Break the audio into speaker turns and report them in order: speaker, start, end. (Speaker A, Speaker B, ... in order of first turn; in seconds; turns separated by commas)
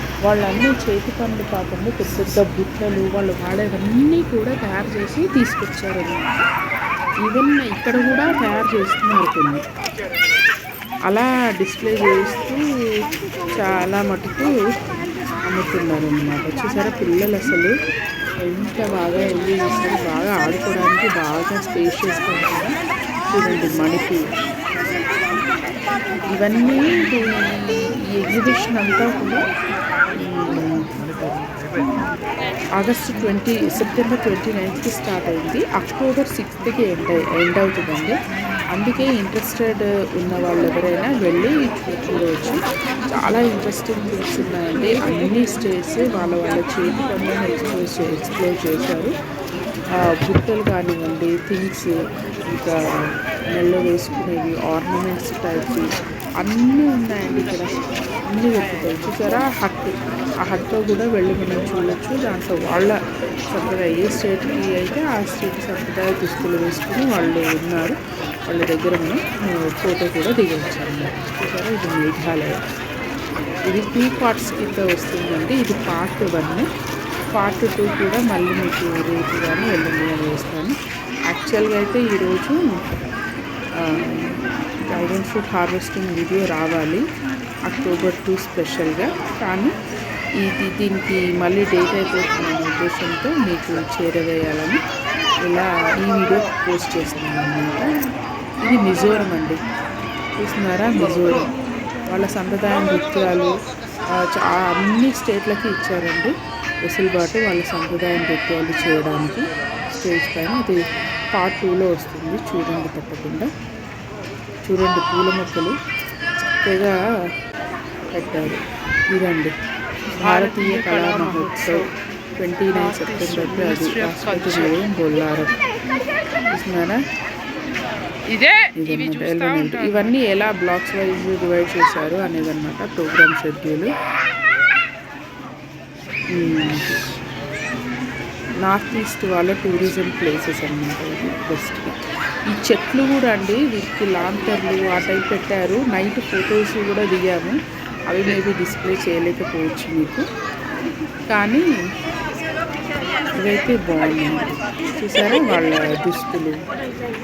Speaker A: 0.2-6.5, Speaker A: 7.2-9.6, Speaker A: 11.1-12.6, Speaker A: 13.5-14.5, Speaker A: 15.4-17.7, Speaker A: 18.4-22.7, Speaker A: 23.3-24.2, Speaker A: 26.3-29.5, Speaker A: 30.2-31.4, Speaker A: 32.8-38.1, Speaker A: 38.7-42.6, Speaker A: 43.1-49.1, Speaker A: 50.1-51.9, Speaker A: 52.5-55.9, Speaker A: 56.4-63.0, Speaker A: 63.5-68.0, Speaker A: 68.5-72.6, Speaker A: 73.7-76.7, Speaker A: 77.3-80.8, Speaker A: 81.3-82.7, Speaker A: 83.8-87.0, Speaker A: 87.7-89.8, Speaker A: 90.4-94.8, Speaker A: 95.5-98.0, Speaker A: 98.6-99.6, Speaker A: 100.4-101.5, Speaker A: 102.1-103.6, Speaker A: 104.2-106.3, Speaker A: 106.8-110.8, Speaker A: 111.3-113.5, Speaker A: 114.7-115.8, Speaker A: 116.6-117.0, Speaker A: 118.1-119.5, Speaker A: 120.2-121.9, Speaker B: 120.2-121.9, Speaker A: 122.4-125.6, Speaker B: 122.8-124.8, Speaker A: 126.5-127.0, Speaker B: 128.3-130.1, Speaker A: 128.8-133.9, Speaker A: 136.3-137.0, Speaker A: 138.6-150.3, Speaker A: 151.3-151.7, Speaker A: 153.4-156.6